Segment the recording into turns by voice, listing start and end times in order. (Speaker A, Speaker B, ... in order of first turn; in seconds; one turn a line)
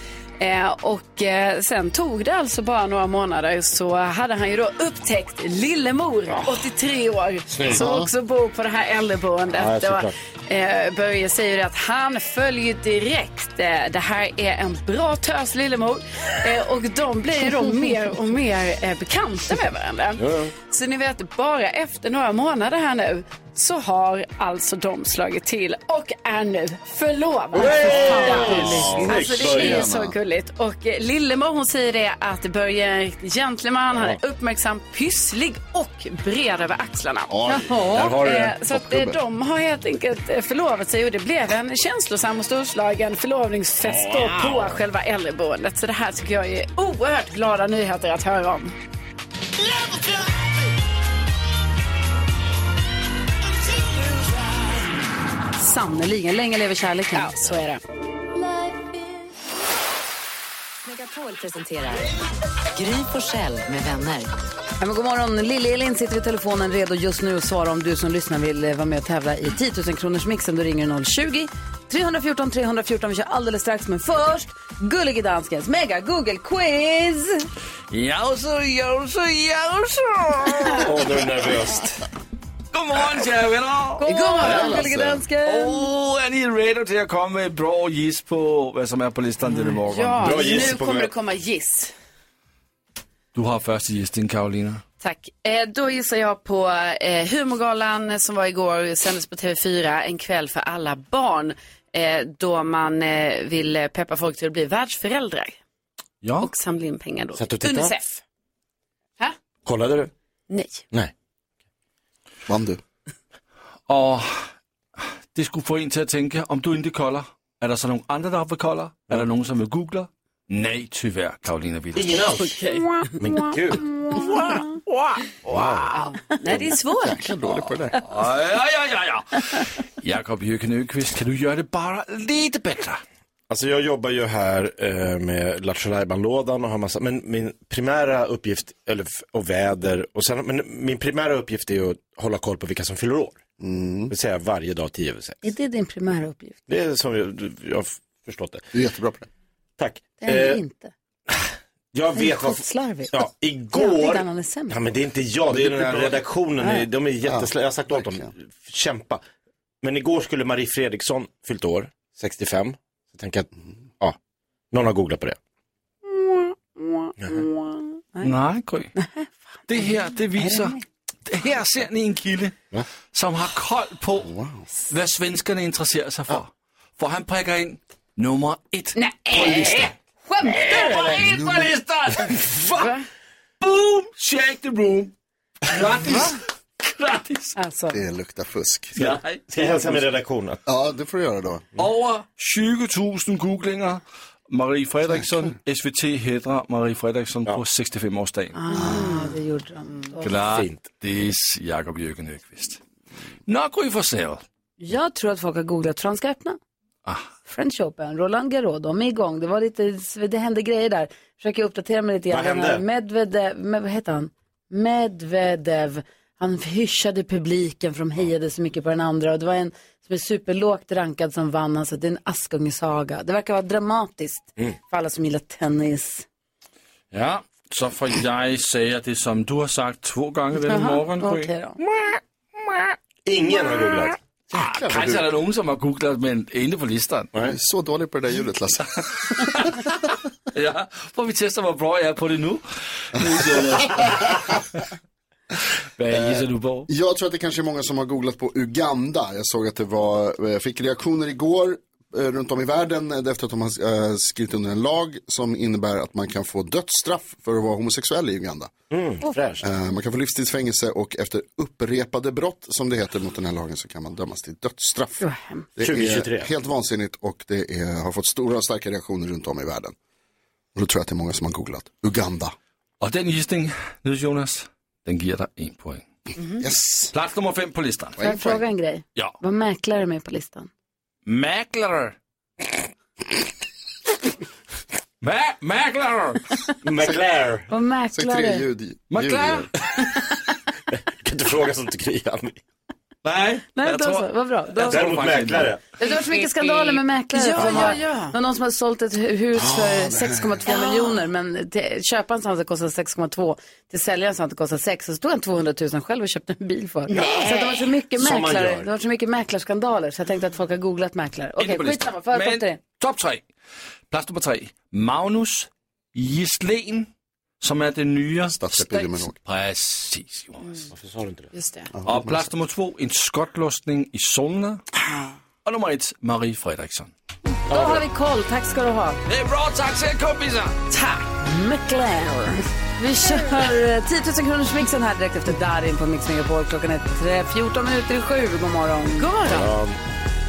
Speaker A: 0.4-48.8
Speaker B: 7.5-7.8
Speaker C: 7.7-8.1
Speaker B: 9.5-10.1
Speaker B: 20.2-20.5
Speaker B: 27.5-29.9
Speaker C: 27.9-30.1
Speaker D: 28.5-28.8
Speaker C: 37.3-37.8
Speaker D: 37.5-38.2
Speaker B: 37.9-38.5
Speaker C: 38.6-39.2
Speaker B: 44.2-44.5
Speaker D: 55.6-57.4
Speaker A: 57.1-57.8
Speaker E: 60.8-62.1
Speaker E: 62.7-64.3
Speaker D: 64.8-77.5
Speaker F: 77.9-80.9
Speaker B: 80.8-82.0
Speaker F: 82.7-84.0
Speaker D: 84.0-85.8
Speaker A: 84.0-84.8
Speaker C: 84.4-85.2
Speaker F: 85.4-90.5
Speaker A: 89.5-91.9
Speaker B: 90.2-91.1
Speaker F: 93.3-94.8
Speaker A: 95.0-105.6
Speaker F: 106.2-106.5
Speaker A: 106.4-108.2
Speaker B: 107.3-107.9
Speaker B: 109.6-110.1
Speaker A: 110.5-110.8
Speaker C: 112.5-112.8
Speaker F: 113.9-114.5
Speaker F: 115.3-122.2
Speaker B: 121.9-122.6
Speaker A: 122.4-123.1
Speaker B: 123.2-123.8
Speaker A: 124.1-127.3
Speaker B: 125.5-125.9
Speaker C: 126.5-128.0
Speaker F: 128.0-133.0
Speaker B: 133.5-143.4
Speaker C: 143.6-144.1
Speaker B: 144.1-145.4
Speaker D: 145.4-146.6
Speaker B: 146.7-148.7
Speaker C: 148.7-149.3
Speaker B: 149.8-150.6
Speaker D: 150.2-150.9
Speaker B: 151.3-159.2
Speaker D: 152.2-154.8
Speaker C: 157.2-158.3
Speaker B: 159.8-163.5
Speaker B: 164.7-165.4
Speaker D: 166.2-168.3
Speaker B: 167.2-167.4
Speaker F: 168.2-168.9
Speaker D: 168.9-170.8
Speaker F: 169.7-172.5
Speaker F: 173.1-174.3
Speaker C: 174.2-174.7
Speaker F: 174.9-179.8
Speaker A: 179.0-179.9
Speaker F: 180.4-182.9
Speaker A: 180.5-181.1
Speaker C: 181.2-181.6
Speaker A: 182.8-183.0
Speaker F: 183.6-185.1
Speaker F: 185.7-187.5
Speaker D: 187.6-187.9
Speaker C: 187.9-188.9
Speaker F: 188.9-189.5
Speaker B: 189.0-190.6
Speaker C: 190.7-191.7
Speaker F: 191.8-198.6
Speaker D: 198.6-200.3
Speaker A: 198.7-199.3
Speaker F: 200.2-202.8
Speaker B: 200.5-200.8
Speaker F: 203.5-204.4
Speaker D: 204.8-206.6
Speaker D: 207.5-226.2
Speaker B: 212.3-212.8
Speaker F: 227.1-231.5
Speaker D: 230.6-231.8
Speaker B: 233.2-234.2
Speaker C: 234.5-235.2
Speaker F: 234.5-237.3
Speaker C: 237.4-239.5
Speaker F: 239.4-239.9
Speaker F: 240.5-242.6
Speaker F: 243.1-244.6
Speaker F: 246.0-246.9
Speaker C: 246.1-258.7
Speaker B: 258.9-259.6
Speaker C: 259.6-265.2
Speaker C: 265.8-269.9
Speaker B: 265.8-266.5
Speaker C: 270.7-272.5
Speaker F: 273.0-276.0
Speaker C: 276.6-277.1
Speaker F: 277.1-278.2
Speaker C: 278.2-278.6
Speaker D: 278.2-280.7
Speaker F: 281.2-282.1
Speaker F: 285.2-286.4
Speaker B: 286.8-287.7
Speaker D: 287.7-288.6
Speaker C: 288.1-289.7
Speaker F: 289.1-289.7
Speaker B: 290.9-292.6
Speaker F: 293.2-295.7
Speaker D: 293.8-295.1
Speaker B: 294.9-295.8
Speaker A: 296.0-298.4
Speaker D: 296.0-312.8
Speaker C: 299.6-300.6
Speaker A: 300.7-301.2
Speaker A: 307.1-307.9
Speaker B: 308.2-308.9
Speaker F: 311.6-313.4
Speaker F: 314.1-317.1
Speaker F: 317.6-320.6
Speaker C: 318.5-319.4
Speaker B: 320.9-321.5
Speaker A: 321.5-321.9
Speaker C: 321.9-322.5
Speaker F: 322.0-324.9
Speaker F: 325.6-327.1
Speaker D: 327.7-329.2
Speaker B: 327.7-328.0
Speaker F: 329.3-330.8
Speaker A: 330.9-331.2
Speaker D: 331.3-339.3
Speaker A: 339.2-339.7
Speaker B: 339.4-340.0